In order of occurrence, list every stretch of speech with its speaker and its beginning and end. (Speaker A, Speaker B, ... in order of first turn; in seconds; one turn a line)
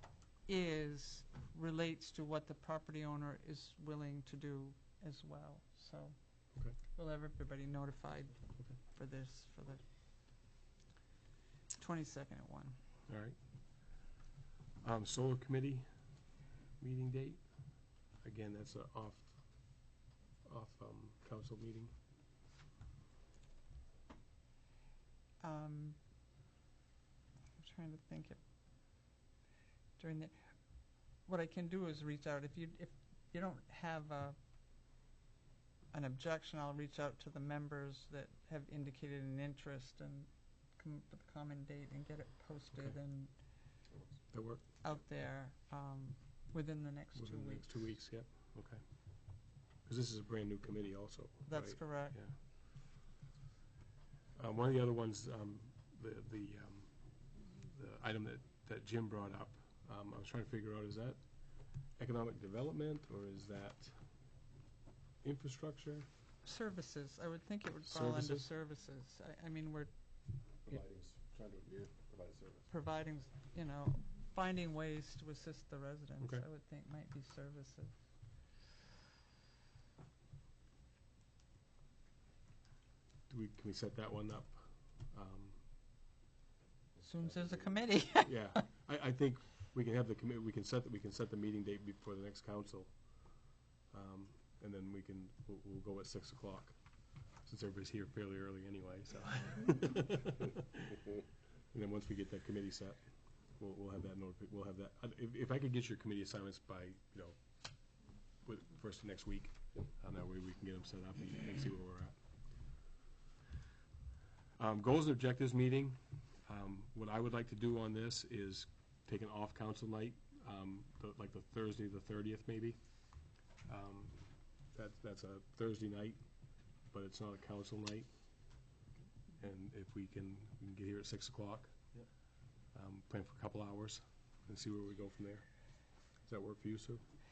Speaker A: 0.5-9.8
Speaker A: 11.8-12.8
Speaker B: 13.1-14.0
Speaker B: 14.8-15.9
Speaker B: 16.8-17.5
Speaker B: 18.2-19.9
Speaker B: 20.4-21.9
Speaker A: 25.4-26.0
Speaker A: 27.6-28.4
Speaker A: 30.0-30.3
Speaker A: 31.2-34.4
Speaker A: 35.9-43.3
Speaker C: 43.9-44.2
Speaker B: 44.3-44.6
Speaker A: 44.8-47.7
Speaker B: 47.1-52.3
Speaker A: 51.5-52.2
Speaker B: 54.4-64.0
Speaker B: 65.2-66.1
Speaker A: 66.4-69.9
Speaker B: 67.8-68.5
Speaker C: 70.7-72.7
Speaker A: 72.7-77.9
Speaker B: 76.2-76.5
Speaker B: 83.3-85.6
Speaker C: 86.9-87.8
Speaker A: 87.0-88.6
Speaker B: 88.2-101.1
Speaker B: 101.7-103.0
Speaker B: 103.6-107.4
Speaker B: 108.4-112.2
Speaker B: 114.6-122.8
Speaker B: 123.7-126.2
Speaker B: 126.9-128.1
Speaker B: 129.4-131.9
Speaker B: 132.7-135.5
Speaker B: 136.2-137.0